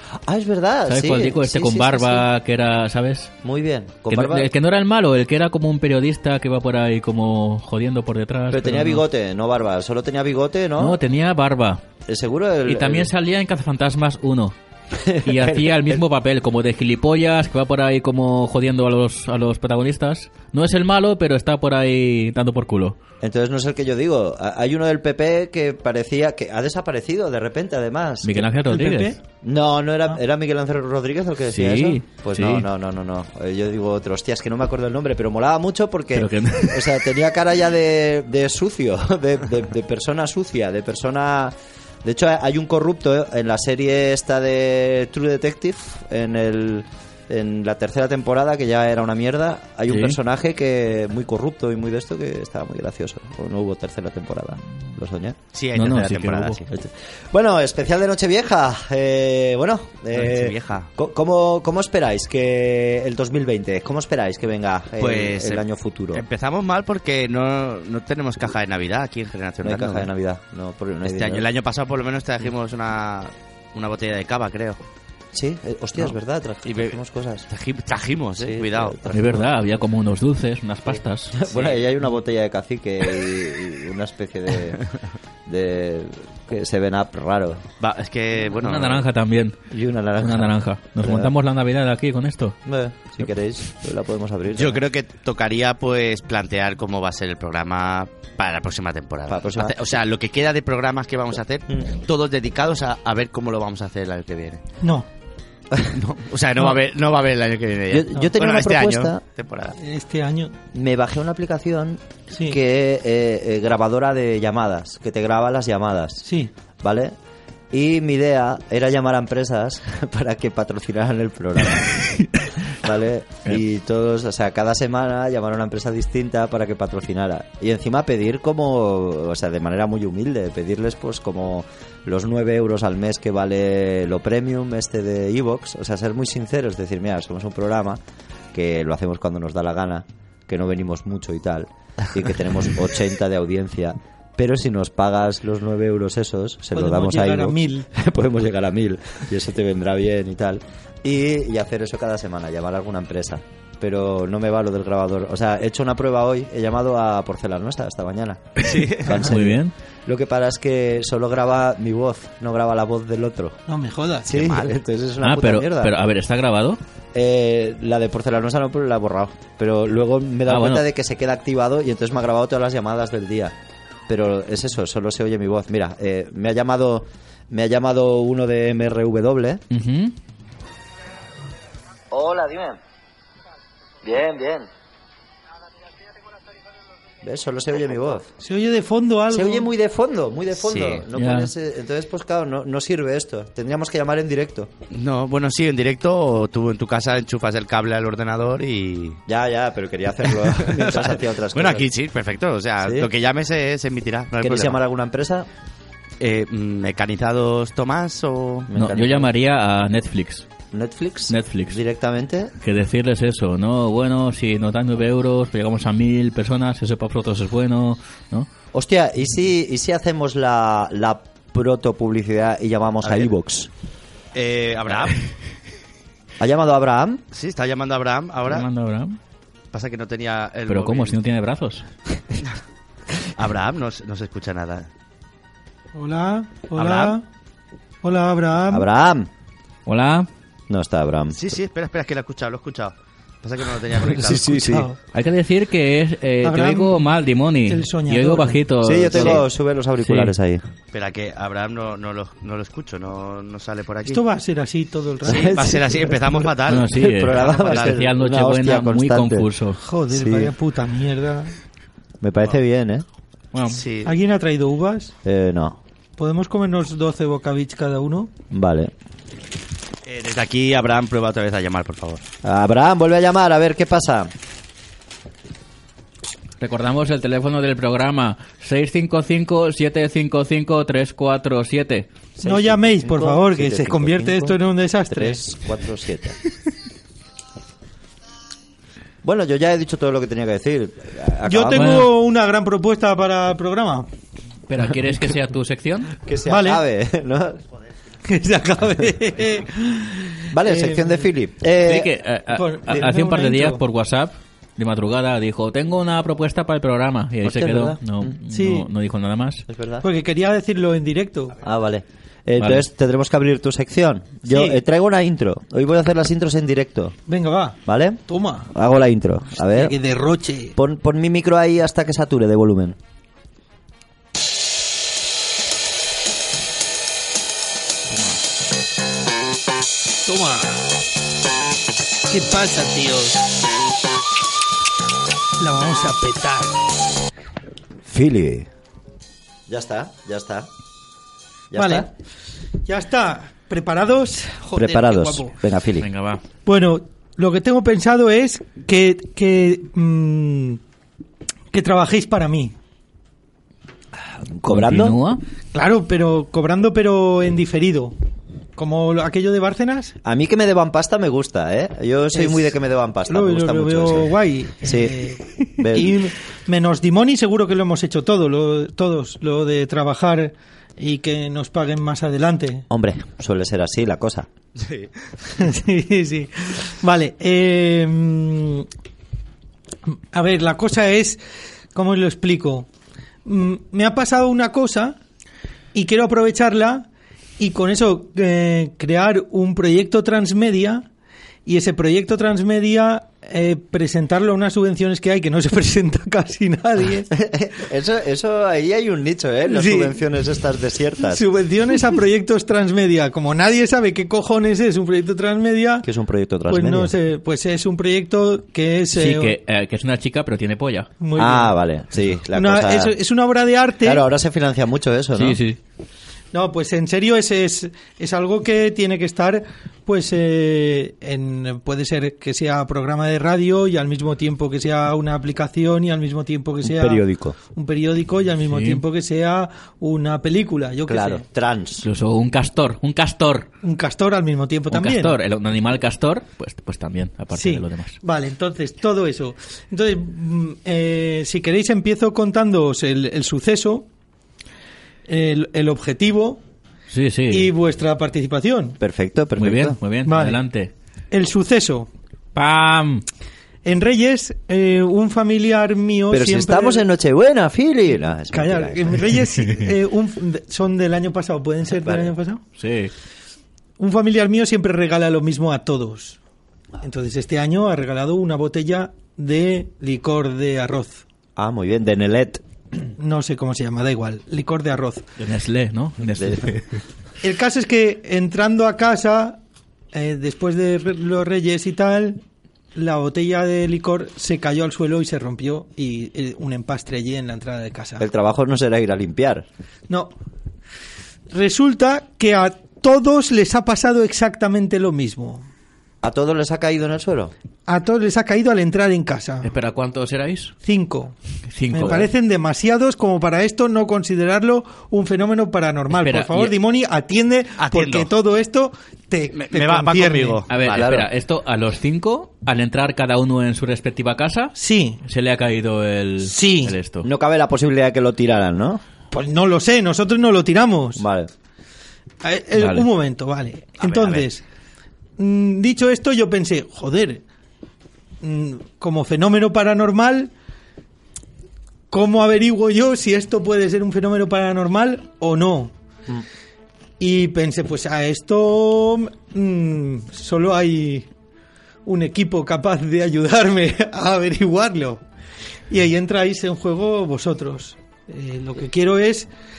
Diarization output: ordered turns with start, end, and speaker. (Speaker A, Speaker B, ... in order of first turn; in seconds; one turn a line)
Speaker A: 0.2-2.2
Speaker B: 0.9-3.3
Speaker A: 3.4-4.5
Speaker B: 4.1-9.0
Speaker A: 8.5-11.0
Speaker B: 10.8-11.8
Speaker A: 12.1-13.1
Speaker B: 12.7-14.6
Speaker A: 14.9-16.0
Speaker B: 15.2-23.0
Speaker A: 23.2-28.5
Speaker B: 28.2-29.2
Speaker C: 28.7-29.2
Speaker A: 29.4-55.4
Speaker B: 31.5-32.7
Speaker B: 36.1-37.1
Speaker B: 49.9-50.2
Speaker D: 55.5-56.7
Speaker B: 55.8-56.6
Speaker A: 56.7-66.2
Speaker D: 60.1-60.9
Speaker D: 65.0-70.1
Speaker A: 69.6-71.4
Speaker D: 71.0-74.8
Speaker A: 75.3-77.5
Speaker D: 76.7-77.0
Speaker D: 77.5-79.0
Speaker A: 78.4-79.5
Speaker B: 79.1-81.4
Speaker A: 81.3-84.9
Speaker D: 81.5-81.8
Speaker A: 85.5-87.6
Speaker D: 87.8-89.0
Speaker B: 88.5-89.6
Speaker A: 89.7-91.3
Speaker B: 90.2-92.6
Speaker A: 92.7-94.8
Speaker D: 94.5-104.6
Speaker A: 99.3-99.8
Speaker C: 104.8-105.1
Speaker D: 105.9-109.8
Speaker A: 107.9-109.2
Speaker C: 109.8-110.6
Speaker A: 110.7-116.2
Speaker C: 112.3-112.6
Speaker C: 116.2-116.5
Speaker A: 116.8-117.2
Speaker A: 117.7-122.2
Speaker A: 122.8-138.0
Speaker A: 138.5-163.6
Speaker C: 146.8-147.9
Speaker D: 158.6-159.1
Speaker C: 159.1-159.3
Speaker B: 159.2-159.7
Speaker C: 163.7-164.4
Speaker A: 164.2-165.9
Speaker D: 164.3-164.8
Speaker B: 165.2-166.8
Speaker A: 167.1-173.6
Speaker B: 170.5-170.8
Speaker A: 174.1-179.6
Speaker B: 179.7-180.1
Speaker A: 182.1-182.8
Speaker A: 184.0-184.7
Speaker A: 187.2-188.3
Speaker C: 188.4-189.7
Speaker A: 189.3-194.7
Speaker D: 190.5-191.1
Speaker B: 191.1-191.5
Speaker D: 194.9-199.2
Speaker A: 199.3-201.9
Speaker D: 200.2-204.8
Speaker A: 202.8-203.1
Speaker A: 204.4-205.5
Speaker D: 206.2-208.7
Speaker A: 208.7-209.3
Speaker B: 208.8-210.5
Speaker A: 210.7-212.5
Speaker B: 211.3-211.8
Speaker B: 212.6-218.5
Speaker A: 218.7-223.7
Speaker D: 223.0-223.3
Speaker D: 224.3-225.2
Speaker A: 226.4-227.2
Speaker D: 227.3-228.7
Speaker B: 228.5-229.2
Speaker D: 229.7-231.2
Speaker B: 230.7-231.8
Speaker D: 233.4-234.9
Speaker C: 235.9-237.2
Speaker D: 236.8-237.2
Speaker C: 238.0-238.9
Speaker A: 238.7-239.3
Speaker B: 239.9-240.3
Speaker A: 240.7-241.4
Speaker D: 241.3-244.6
Speaker A: 244.0-244.9
Speaker C: 244.5-245.0
Speaker B: 245.1-249.4
Speaker C: 246.4-247.1
Speaker C: 247.7-248.6
Speaker A: 248.8-250.6
Speaker B: 250.0-250.3
Speaker D: 250.9-254.2
Speaker C: 254.1-256.5
Speaker A: 255.2-255.9
Speaker D: 255.2-258.0
Speaker B: 256.7-259.8
Speaker A: 256.7-259.5
Speaker C: 259.8-261.5
Speaker A: 260.1-260.5
Speaker A: 262.2-263.1
Speaker B: 263.5-263.8
Speaker D: 263.7-264.2
Speaker C: 264.1-265.1
Speaker A: 265.2-265.8
Speaker C: 266.2-268.3
Speaker A: 268.5-268.9
Speaker D: 270.1-272.2
Speaker A: 272.4-274.3
Speaker B: 276.6-282.1
Speaker A: 282.4-284.6
Speaker C: 282.4-285.4
Speaker A: 285.1-286.4
Speaker A: 289.2-292.1
Speaker C: 291.5-294.1
Speaker B: 291.7-292.1
Speaker B: 294.7-296.2
Speaker A: 296.2-297.6
Speaker C: 296.4-296.8
Speaker C: 298.2-301.3
Speaker A: 300.5-302.1
Speaker B: 301.8-309.6
Speaker C: 302.5-303.8
Speaker A: 307.4-308.4
Speaker C: 308.5-308.9
Speaker A: 309.7-310.1
Speaker C: 310.0-311.6
Speaker A: 311.6-317.2
Speaker B: 312.6-312.8
Speaker C: 314.4-314.8
Speaker C: 317.3-318.7
Speaker A: 317.9-319.9
Speaker C: 319.6-320.8
Speaker A: 320.8-323.0
Speaker C: 330.2-330.8
Speaker C: 332.3-333.4
Speaker C: 335.6-336.8
Speaker A: 338.1-338.7
Speaker A: 339.7-340.7
Speaker A: 341.7-342.1
Speaker C: 341.8-342.1
Speaker C: 342.9-345.6
Speaker A: 344.8-346.1
Speaker B: 346.0-346.4
Speaker C: 346.7-350.8
Speaker C: 351.7-352.7
Speaker A: 354.5-355.2
Speaker B: 354.7-355.4
Speaker C: 355.7-358.1
Speaker C: 358.8-360.1
Speaker A: 360.2-365.2
Speaker C: 362.3-362.7
Speaker C: 363.3-372.9
Speaker A: 365.8-366.3
Speaker A: 372.9-374.5
Speaker D: 374.8-375.1
Speaker C: 375.5-378.9
Speaker C: 380.1-381.4
Speaker C: 381.9-382.9
Speaker C: 383.4-385.2
Speaker C: 385.9-387.1
Speaker C: 387.6-391.1
Speaker C: 391.7-397.3
Speaker A: 397.3-401.4
Speaker C: 399.7-400.2
Speaker C: 401.3-406.1
Speaker A: 406.0-407.1
Speaker C: 406.7-409.6
Speaker B: 409.1-411.1
Speaker C: 411.2-411.8
Speaker A: 411.4-413.2
Speaker C: 412.5-414.2
Speaker A: 414.0-415.6
Speaker B: 415.3-415.8
Speaker C: 416.5-431.4
Speaker A: 426.8-427.6
Speaker B: 428.7-429.0
Speaker A: 431.1-432.1
Speaker B: 432.0-433.7
Speaker C: 433.8-435.4
Speaker B: 434.9-438.2
Speaker C: 437.5-444.1
Speaker C: 445.3-446.6
Speaker B: 447.1-447.7
Speaker C: 447.5-449.0
Speaker A: 449.0-450.0
Speaker B: 449.6-450.9
Speaker C: 450.2-450.6
Speaker C: 451.3-452.1
Speaker B: 452.6-453.2
Speaker C: 453.8-457.0
Speaker A: 456.3-459.4
Speaker C: 458.5-462.6
Speaker A: 462.0-462.3
Speaker B: 462.8-463.1
Speaker C: 464.0-466.4
Speaker C: 467.0-471.2
Speaker A: 471.6-472.6
Speaker C: 473.2-475.3
Speaker B: 475.4-477.0
Speaker A: 476.4-476.7
Speaker C: 477.4-479.6
Speaker C: 480.1-482.4
Speaker C: 482.9-488.2
Speaker A: 488.2-489.7
Speaker C: 491.5-495.6
Speaker A: 496.2-497.5
Speaker C: 497.9-499.7
Speaker B: 499.6-500.7
Speaker C: 500.8-501.3
Speaker B: 501.7-502.3
Speaker C: 501.9-510.6
Speaker B: 506.1-506.8
Speaker D: 507.8-508.3
Speaker D: 509.5-511.1
Speaker B: 510.7-517.3
Speaker A: 510.8-511.3
Speaker C: 514.8-515.2
Speaker C: 516.4-517.0
Speaker A: 517.2-519.0
Speaker C: 519.3-521.2
Speaker A: 521.2-521.5
Speaker C: 522.4-524.6
Speaker B: 522.8-523.1
Speaker D: 524.0-524.5
Speaker C: 525.4-527.4
Speaker C: 528.4-530.5
Speaker C: 532.1-535.9
Speaker C: 537.2-541.3
Speaker C: 542.1-545.2
Speaker C: 545.9-549.5